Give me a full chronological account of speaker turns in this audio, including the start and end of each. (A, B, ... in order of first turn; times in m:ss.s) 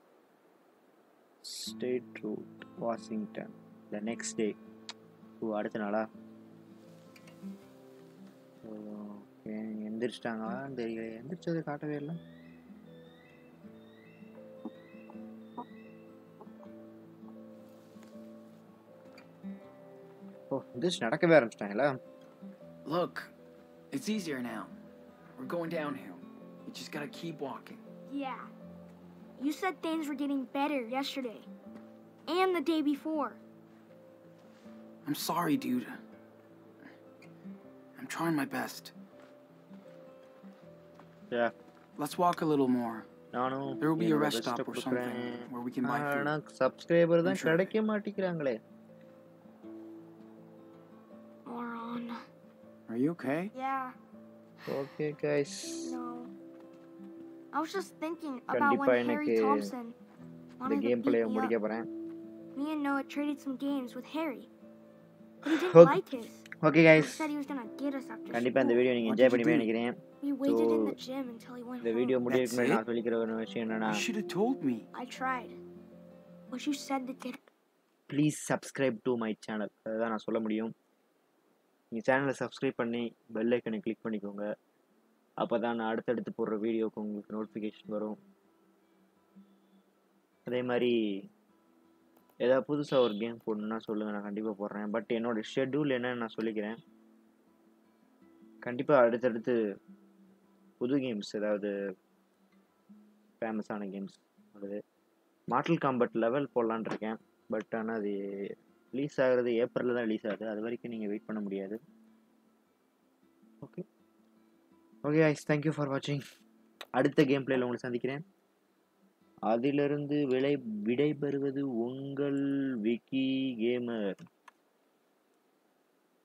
0:01.4-0:04.5 A
0:05.4-0:06.0 A
0:08.6-0:12.2 A
0:20.5-0:21.9 A
0:22.8-0:23.3 B
0:23.9-0:24.8 B
0:25.4-0:27.8 B
0:28.1-0:28.5 C
0:29.4-0:31.5 C
0:32.3-0:33.4 C
0:35.0-0:36.0 B
0:38.0-0:38.9 B
0:42.0-0:43.1 B
0:43.3-0:48.6 A
0:43.8-0:46.3 B
0:47.2-0:47.8 B
0:51.4-0:52.2 C
0:52.9-0:53.5 B
0:53.5-0:53.9 C
0:54.7-0:55.9 A
0:55.8-0:56.3 C
0:57.5-1:00.0 C
0:58.5-0:59.7 A
1:00.6-1:01.5 C
1:00.6-1:01.9 A
1:02.5-1:04.5 C
1:05.4-1:08.9 C
1:05.7-1:06.0 A
1:06.6-1:07.3 A
1:08.3-1:10.9 A
1:09.0-1:09.7 B
1:10.2-1:12.2 C
1:11.8-1:14.0 A
1:12.3-1:12.8 B
1:13.9-1:14.9 B
1:14.9-1:15.6 C
1:16.5-1:17.5 C
1:18.1-1:20.7 A
1:21.9-1:24.4 A
1:25.4-1:28.2 A
1:30.5-1:30.9 A
1:32.4-1:36.8 A
1:38.6-1:39.5 A
1:40.8-1:41.7 A
1:43.4-1:44.8 A
1:45.5-1:48.1 A
1:48.9-1:51.8 A
1:55.0-1:56.2 A
1:57.0-1:58.2 A
1:59.5-2:04.1 A